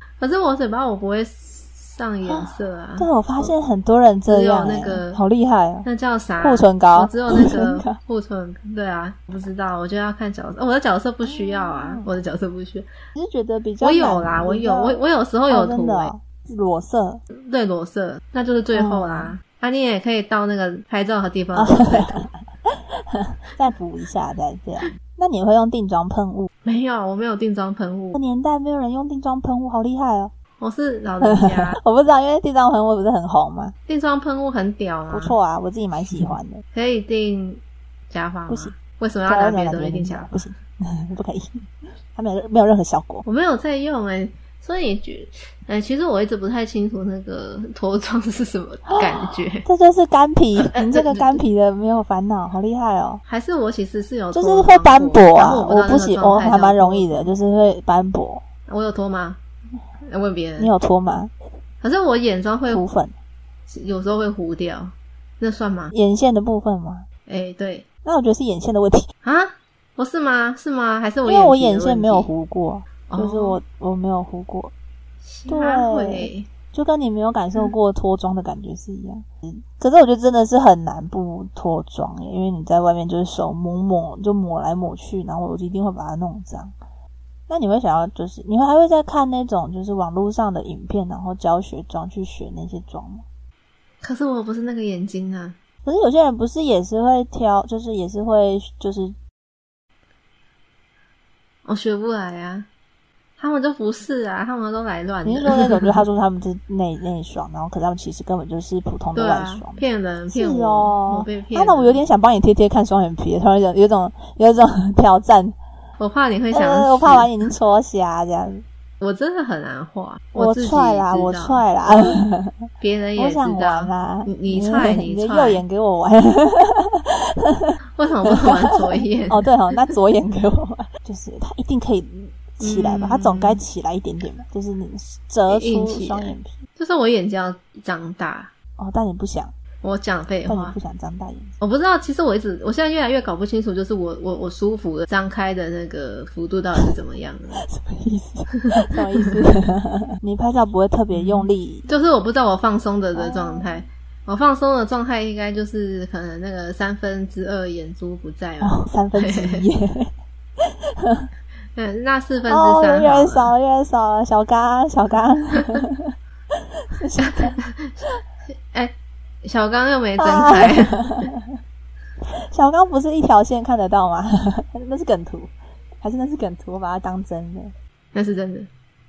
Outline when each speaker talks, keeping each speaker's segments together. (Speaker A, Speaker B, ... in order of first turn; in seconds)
Speaker A: 0.2-3.5, 4.3-5.2, 5.8-12.9, 13.8-16.1, 17.3-22.2, 26.6-28.2, 30.6-31.8, 33.9-35.4, 36.7-40.5, 43.2-49.6, 50.6-51.4, 53.2-57.3, 58.7-59.4, 60.0-60.7, 61.8-62.8, 63.7-65.9, 67.3-67.8, 69.2-72.3, 73.1-73.6, 75.2-76.5, 94.0-95.5, 101.6-102.7, 103.4-106.0, 109.1-112.0, 116.0-117.3, 119.0-122.2, 122.8-125.6, 128.0-129.5, 132.6-133.6, 135.5-138.5, 139.8-140.8, 141.6-147.6, 151.1-159.6, 161.7-163.5, 167.2-168.0, 168.7-171.3, 178.1-178.7
Speaker B: 2.3-5.9, 6.4-8.0, 11.2-12.1, 13.1-17.2, 18.7-19.3, 21.5-26.5, 28.1-30.3, 31.2-33.7, 35.1-36.6, 38.5-38.7, 39.2-43.2, 48.9-53.2, 54.3-58.4, 60.6-61.3, 62.7-63.1, 65.9-67.1, 68.0-69.1, 71.2-74.7, 75.5-86.7, 87.5-93.2, 95.8-99.1, 105.2-115.5, 116.5-118.6, 120.3-122.5, 123.2-136.6, 138.8-139.5, 140.5-141.6, 147.6-151.9, 153.1-153.8, 158.6-161.3, 162.5-167.6, 170.2-171.5, 172.5-177.7